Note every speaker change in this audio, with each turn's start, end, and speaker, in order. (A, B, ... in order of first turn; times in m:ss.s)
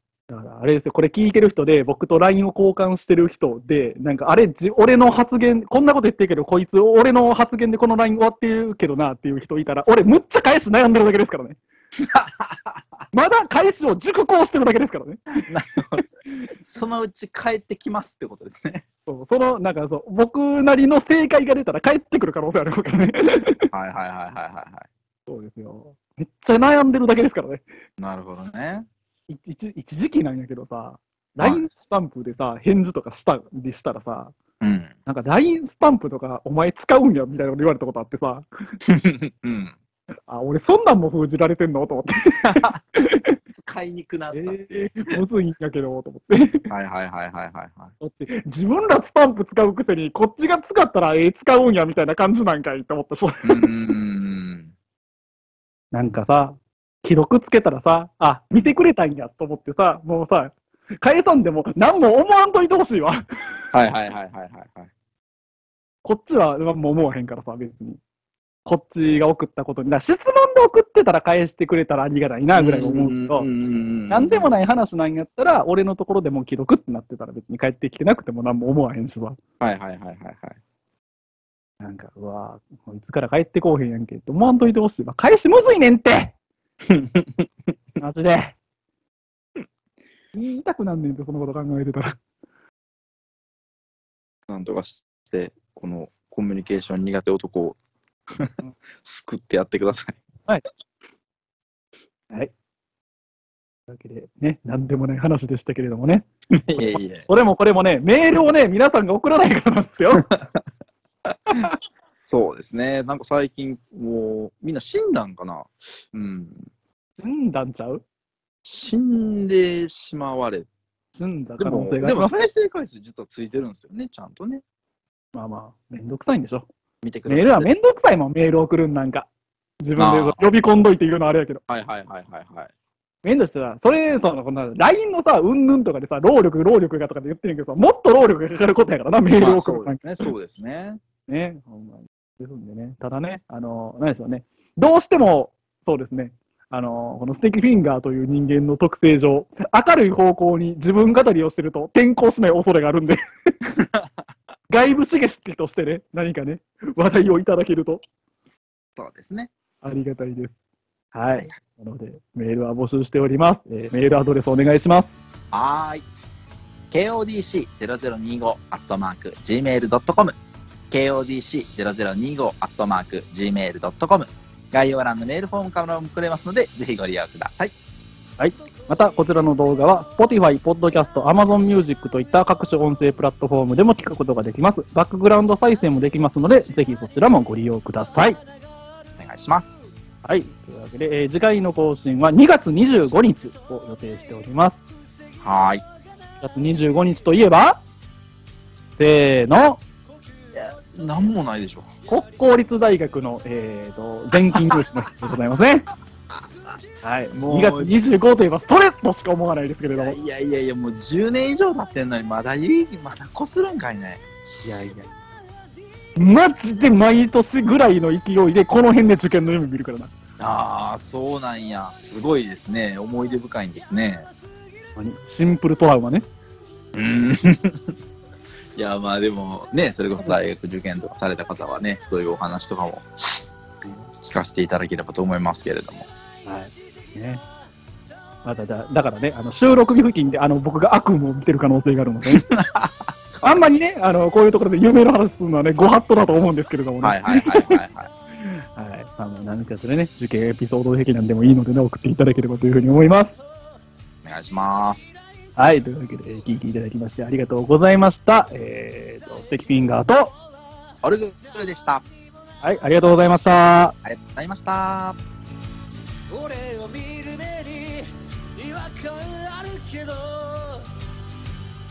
0:00.3-0:11.6 A
0:12.0-0:12.8 B
0:13.1-0:15.2 A
0:15.4-0:16.0 B
0:16.6-0:18.8 B
0:19.1-0:23.7 A
0:23.7-0:24.9 B
0:25.3-0:27.6 A
0:28.0-0:28.9 B
0:29.3-0:34.3 A
0:31.4-0:31.7 B
0:34.6-0:34.9 B
0:35.0-0:38.5 A
0:38.8-0:39.7 B
0:40.3-0:43.4 A
0:42.4-0:42.8 B
0:43.4-0:45.2 B
0:44.3-0:46.6 A
0:46.7-0:47.9 B
0:48.0-0:53.7 A
0:53.4-0:54.7 B
0:55.9-1:03.2 A
1:03.7-1:04.9 B
1:06.0-1:08.0 A
1:08.6-1:13.5 A
1:12.5-1:14.5 B
1:14.1-1:19.4 A
1:19.6-1:20.6 B
1:21.8-1:26.3 A
1:26.8-1:27.5 B
1:28.0-1:28.6 A
1:30.3-1:32.2 A
1:34.5-1:37.8 B
1:38.4-1:40.2 B
1:43.9-1:46.2 A
1:46.5-1:47.2 B
1:46.8-1:50.2 A
1:50.3-1:50.6 B
1:51.3-1:56.7 B
1:51.5-1:51.8 A
1:57.2-1:58.0 A
1:58.6-2:00.7 B
2:01.1-2:02.4 A
2:01.6-2:04.6 B
2:05.3-2:06.7 A
2:07.0-2:07.7 B
2:07.3-2:09.3 A
2:09.8-2:11.6 A
2:10.0-2:10.5 B
2:11.7-2:12.7 B
2:13.2-2:20.0 A
2:19.4-2:21.0 B
2:21.3-2:33.2 A
2:33.8-2:34.1 B
2:34.7-2:38.0 A
2:39.0-2:39.5 B
2:39.8-2:40.5 A
2:41.1-2:45.2 A
2:45.5-2:46.0 B
2:46.9-2:50.3 B
2:50.9-2:57.7 B
2:58.4-3:08.4 A
3:09.2-3:09.8 B
3:10.2-3:14.8 A
3:15.4-3:15.8 B
3:16.4-3:17.8 A
3:19.0-3:19.8 A
3:20.5-3:21.9 B
3:22.1-3:25.9 A
3:24.5-3:25.3 B
3:27.0-3:30.2 A
3:27.3-3:28.0 B
3:30.0-3:34.2 B
3:34.6-3:35.1 A
3:36.2-3:40.1 A
3:40.4-3:44.3 B
3:45.0-3:46.2 A
3:46.9-3:47.8 B
3:48.7-3:53.4 B
3:54.2-3:56.1 B
3:56.4-3:57.4 A
3:58.4-4:02.4 A
4:02.3-4:03.6 B
4:03.4-4:07.8 A
4:07.0-4:08.1 B
4:08.4-4:13.3 A
4:14.2-4:15.1 B
4:15.6-4:20.3 A
4:21.0-4:22.0 B
4:22.6-4:23.9 A
4:24.0-4:25.2 B
4:26.3-4:30.9 C